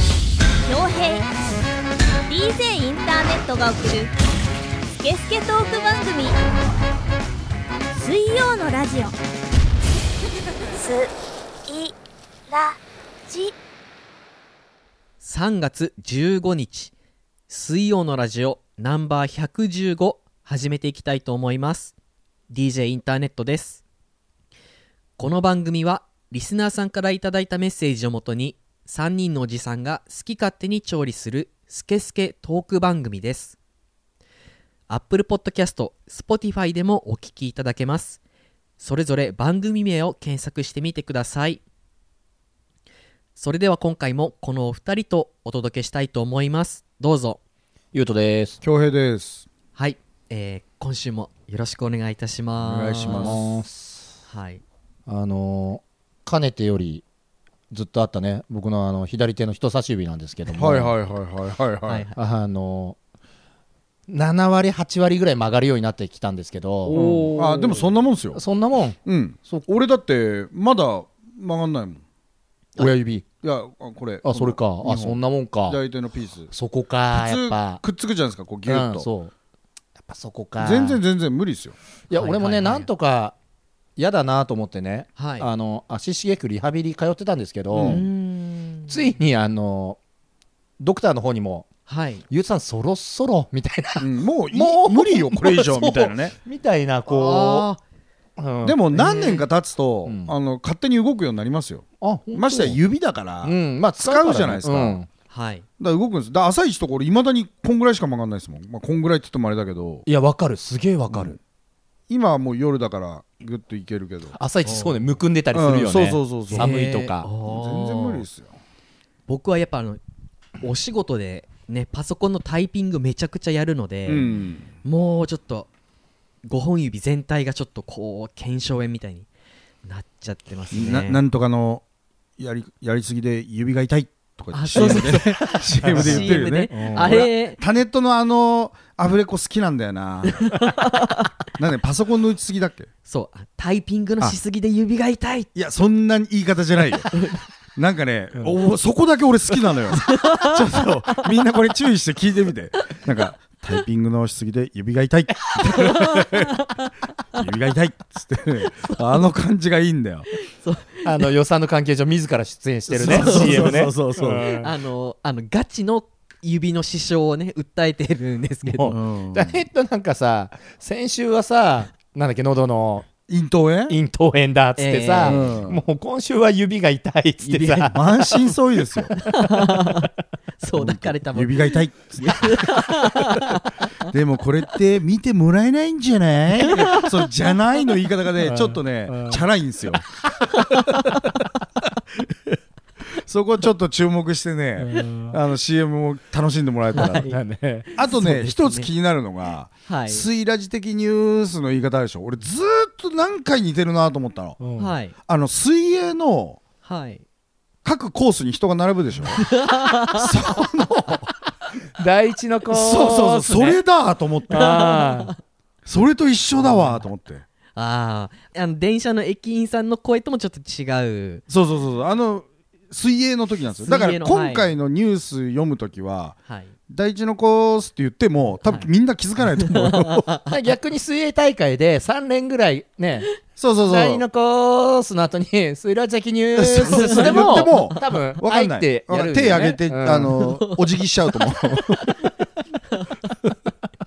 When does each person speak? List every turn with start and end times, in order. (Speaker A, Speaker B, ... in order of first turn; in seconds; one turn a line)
Speaker A: 0.6-1.3
Speaker A: 2.3-4.1
Speaker A: 5.0-6.3
Speaker A: 7.9-9.1
Speaker B: 15.2-16.9
Speaker B: 17.5-21.9
Speaker B: 22.5-23.8
Speaker B: 25.2-33.5
Speaker B: 34.9-38.2
Speaker B: 38.8-41.6
Speaker B: 43.4-47.4
Speaker C: 47.9-48.6
Speaker D: 48.6-49.5
Speaker B: 49.7-53.4
Speaker D: 52.6-53.6
Speaker C: 53.1-54.1
Speaker B: 54.3-54.6
Speaker C: 55.1-57.0
Speaker C: 57.7-60.9
Speaker D: 60.5-62.0
Speaker B: 61.9-62.1
Speaker C: 62.1-63.0
Speaker C: 64.1-69.7
Speaker B: 66.9-67.2
Speaker D: 66.9-68.4
Speaker D: 69.0-72.0
Speaker C: 72.8-73.2
Speaker D: 72.8-76.5
Speaker C: 74.2-75.8
Speaker C: 76.5-77.8
Speaker D: 77.1-79.1
Speaker C: 78.7-79.3
Speaker C: 80.0-81.0
Speaker D: 80.6-81.8
Speaker C: 82.1-83.3
Speaker B: 82.1-82.9
Speaker C: 84.0-88.0
Speaker B: 85.2-85.5
Speaker D: 87.7-88.0
Speaker B: 87.8-89.1
Speaker C: 88.9-90.0
Speaker C: 90.8-91.7
Speaker B: 91.9-92.2
Speaker C: 92.3-97.7
Speaker D: 94.0-96.3
Speaker B: 97.1-97.8
Speaker C: 98.4-98.8
Speaker D: 98.6-105.0
Speaker B: 98.9-99.5
Speaker C: 100.0-100.3
Speaker C: 102.0-102.8
Speaker C: 103.4-105.1
Speaker B: 105.3-105.6
Speaker D: 105.8-110.0
Speaker C: 110.0-111.4
Speaker D: 111.1-111.4
Speaker D: 112.1-114.4
Speaker C: 114.4-117.3
Speaker B: 114.6-115.0
Speaker D: 115.5-116.7
Speaker B: 116.5-118.2
Speaker D: 117.4-118.6
Speaker B: 119.3-120.0
Speaker B: 120.6-125.7
Speaker D: 124.0-124.7
Speaker B: 126.4-129.3
Speaker B: 129.8-131.2
Speaker D: 130.7-131.8
Speaker D: 132.4-140.6
Speaker B: 134.5-137.6
Speaker C: 134.7-135.1
Speaker C: 135.9-137.2
Speaker B: 140.4-141.3
Speaker D: 141.6-142.9
Speaker B: 143.1-145.5
Speaker D: 145.5-147.1
Speaker D: 147.8-156.6
Speaker B: 150.1-150.5
Speaker B: 155.7-156.9
Speaker D: 157.3-160.3
Speaker B: 160.4-161.2
Speaker C: 161.0-164.7
Speaker D: 162.9-164.6
Speaker B: 163.0-163.9
Speaker B: 164.6-168.9
Speaker C: 168.7-173.1
Speaker D: 168.9-169.6
Speaker D: 173.3-174.0
Speaker C: 173.9-178.0
Speaker B: 174.8-175.4
Speaker D: 175.2-175.8
Speaker B: 177.4-178.2
Speaker D: 177.9-179.1
Speaker B: 179.2-180.1
Speaker B: 180.6-184.0
Speaker D: 180.8-182.7
Speaker D: 184.0-190.0
Speaker B: 186.6-187.1
Speaker C: 188.4-189.4
Speaker C: 190.2-191.4
Speaker B: 190.6-191.2
Speaker D: 193.2-197.2
Speaker C: 194.8-195.4
Speaker B: 197.0-197.4
Speaker C: 197.0-197.9
Speaker B: 197.9-198.9
Speaker D: 197.9-204.6
Speaker B: 199.9-200.2
Speaker C: 204.6-204.9
Speaker B: 204.8-205.1
Speaker D: 205.2-206.6
Speaker B: 206.8-207.2
Speaker D: 207.8-209.5
Speaker B: 209.4-210.3
Speaker D: 210.1-211.3
Speaker C: 212.0-213.8
Speaker D: 212.7-214.8
Speaker C: 214.5-215.3
Speaker B: 214.5-215.3
Speaker D: 215.8-217.4
Speaker B: 217.8-221.4
Speaker D: 221.5-226.3
Speaker B: 223.8-224.7
Speaker B: 226.5-226.7
Speaker D: 226.9-230.2
Speaker B: 228.6-228.9
Speaker C: 230.5-240.4
Speaker D: 233.6-234.2
Speaker D: 236.6-242.1
Speaker B: 236.8-237.8